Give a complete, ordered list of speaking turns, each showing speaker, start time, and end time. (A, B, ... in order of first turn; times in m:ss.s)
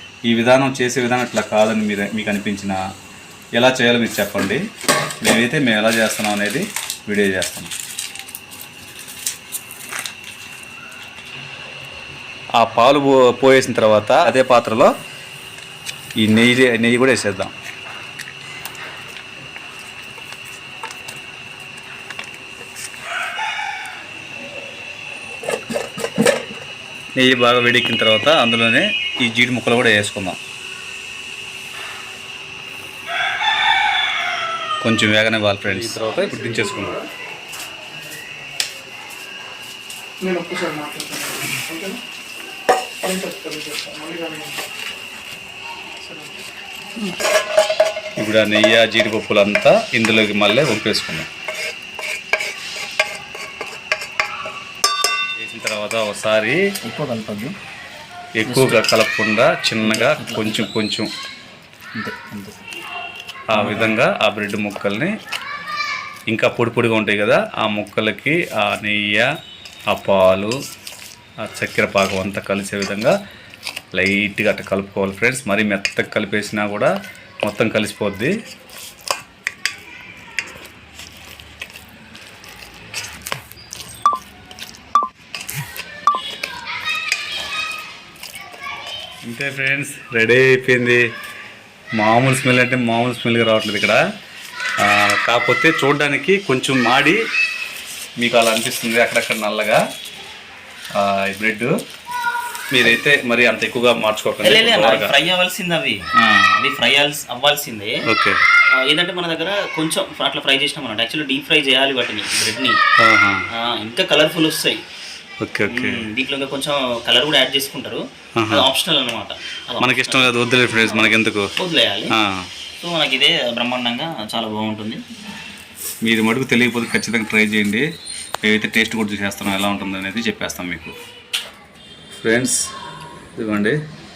0:00.3-0:02.8 A
0:03.6-0:04.6 A
0:05.2-0:07.7 A
0:12.6-0:14.9 A
0:16.2-0:17.5 A
0:27.2-0:30.4 A
0:34.8-0:37.0 A
0:40.2-0:42.0 B
0:43.0-0:44.6 B
0:46.0-0:46.4 B
0:48.2-0:51.3 A
0:55.4-0:56.6 A
0:56.8-0:57.6 C
0:58.4-1:01.1 A
0:58.5-0:58.8 C
0:59.8-1:00.7 C
1:02.0-1:02.6 C
1:03.5-1:05.1 A
1:03.5-1:04.0 C
1:06.3-1:09.3 A
1:09.9-1:10.5 A
1:11.4-1:13.1 A
1:13.9-1:18.3 A
1:29.2-1:31.0 A
1:32.0-1:34.0 A
1:34.8-1:37.2 A
1:38.2-1:39.8 A
1:41.0-1:41.7 A
1:42.7-1:45.1 A
1:44.4-1:46.0 C
1:46.2-1:46.6 A
1:46.6-1:48.0 C
1:48.1-1:48.4 A
1:48.8-1:52.8 C
1:53.0-1:53.5 A
1:53.6-1:54.8 C
1:55.4-1:56.1 A
1:55.7-2:02.1 C
1:58.4-1:58.7 A
1:59.8-2:01.5 A
2:02.1-2:02.5 A
2:02.8-2:05.0 C
2:06.0-2:07.8 A
2:08.4-2:10.9 A
2:12.2-2:12.6 A
2:13.4-2:13.8 A